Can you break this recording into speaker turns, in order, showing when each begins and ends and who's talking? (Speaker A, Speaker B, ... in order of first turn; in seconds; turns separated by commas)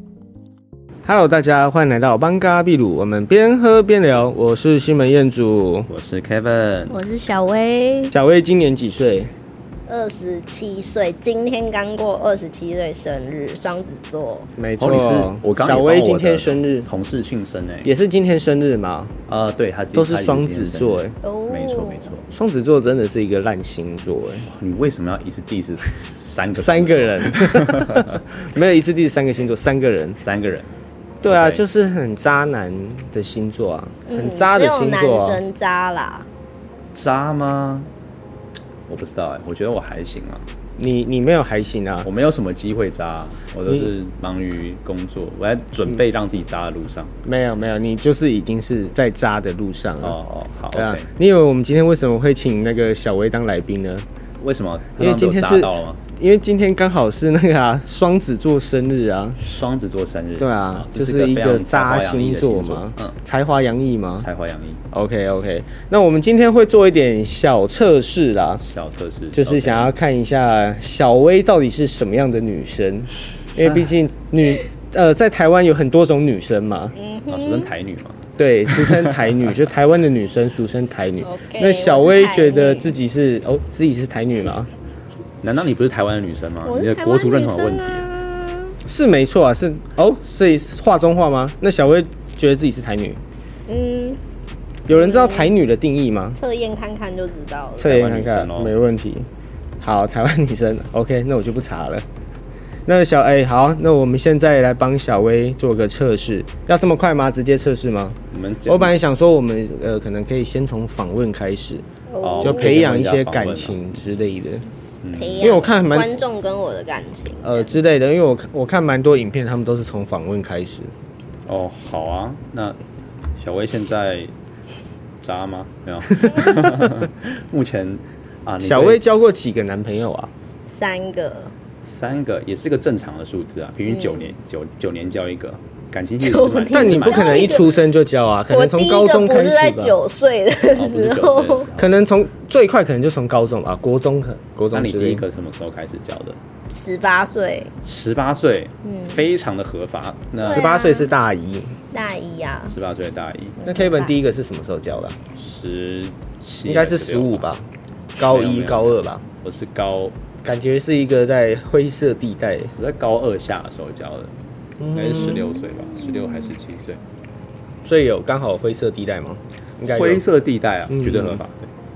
Speaker A: 1.0-5.9, Speaker B: 5.9-7.0, Speaker C: 6.9-8.1, Speaker A: 8.1-9.3, Speaker C: 9.9-14.5, Speaker A: 14.6-16.9, Speaker B: 14.8-17.9, Speaker A: 17.8-19.1, Speaker B: 19.3-22.2, Speaker A: 19.9-21.1, Speaker C: 21.2-22.1, Speaker A: 22.3-24.5, Speaker B: 24.4-28.2, Speaker A: 26.6-30.2, Speaker B: 30.2-30.7, Speaker B: 31.2-31.6, Speaker A: 31.2-35.4, Speaker C: 34.1-36.2, Speaker B: 36.9-37.9, Speaker B: 38.9-40.5, Speaker A: 40.8-42.1, Speaker B: 42.0-47.1, Speaker A: 47.2-50.2, Speaker B: 50.0-51.1, Speaker A: 50.7-54.0, Speaker B: 54.4-56.0, Speaker A: 55.0-59.4, Speaker B: 59.4-63.1, Speaker A: 60.4-64.3, Speaker B: 64.2-64.8, Speaker A: 64.9-68.6, Speaker B: 68.6-69.9, Speaker A: 69.3-76.9, Speaker C: 77.0-77.7, Speaker B: 77.3-79.5, Speaker A: 78.4-84.7, Speaker C: 81.2-83.0, Speaker B: 85.4-88.1, Speaker C: 86.7-88.8, Speaker A: 88.8-93.2, Speaker C: 93.7-94.2, Speaker A: 94.9-96.4, Speaker C: 94.9-95.5, Speaker C: 96.4-97.9, Speaker A: 97.8-99.3, Speaker B: 97.8-98.7, Speaker A: 99.8-102.0, Speaker A: 102.8-111.8, Speaker B: 108.3-108.9, Speaker C: 112.1-112.8, Speaker B: 112.2-113.8, Speaker A: 112.4-114.7, Speaker B: 115.0-115.7, Speaker C: 115.2-117.7, Speaker A: 115.4-116.2, Speaker A: 117.4-120.9, Speaker B: 121.5-122.8, Speaker B: 123.4-124.3, Speaker B: 125.2-129.0, Speaker A: 128.6-130.3, Speaker C: 130.7-131.5, Speaker B: 131.8-137.6, Speaker C: 133.9-134.3, Speaker C: 136.2-137.8, Speaker A: 136.7-139.9, Speaker C: 138.5-141.7, Speaker B: 140.7-142.0, Speaker A: 141.8-145.2, Speaker B: 144.7-146.4, Speaker C: 146.7-147.7, Speaker B: 147.8-150.6, Speaker C: 148.8-149.2, Speaker C: 150.4-151.1, Speaker A: 150.4-151.8, Speaker C: 151.9-152.7, Speaker B: 152.7-153.6, Speaker C: 153.6-154.1, Speaker A: 153.6-155.2, Speaker B: 155.3-157.5, Speaker A: 156.6-157.7, Speaker A: 158.2-159.2, Speaker B: 158.2-160.1, Speaker A: 160.4-162.7, Speaker B: 162.8-164.3, Speaker A: 164.8-165.4, Speaker B: 164.9-167.0, Speaker A: 167.8-170.2, Speaker B: 169.8-171.7, Speaker A: 170.9-171.4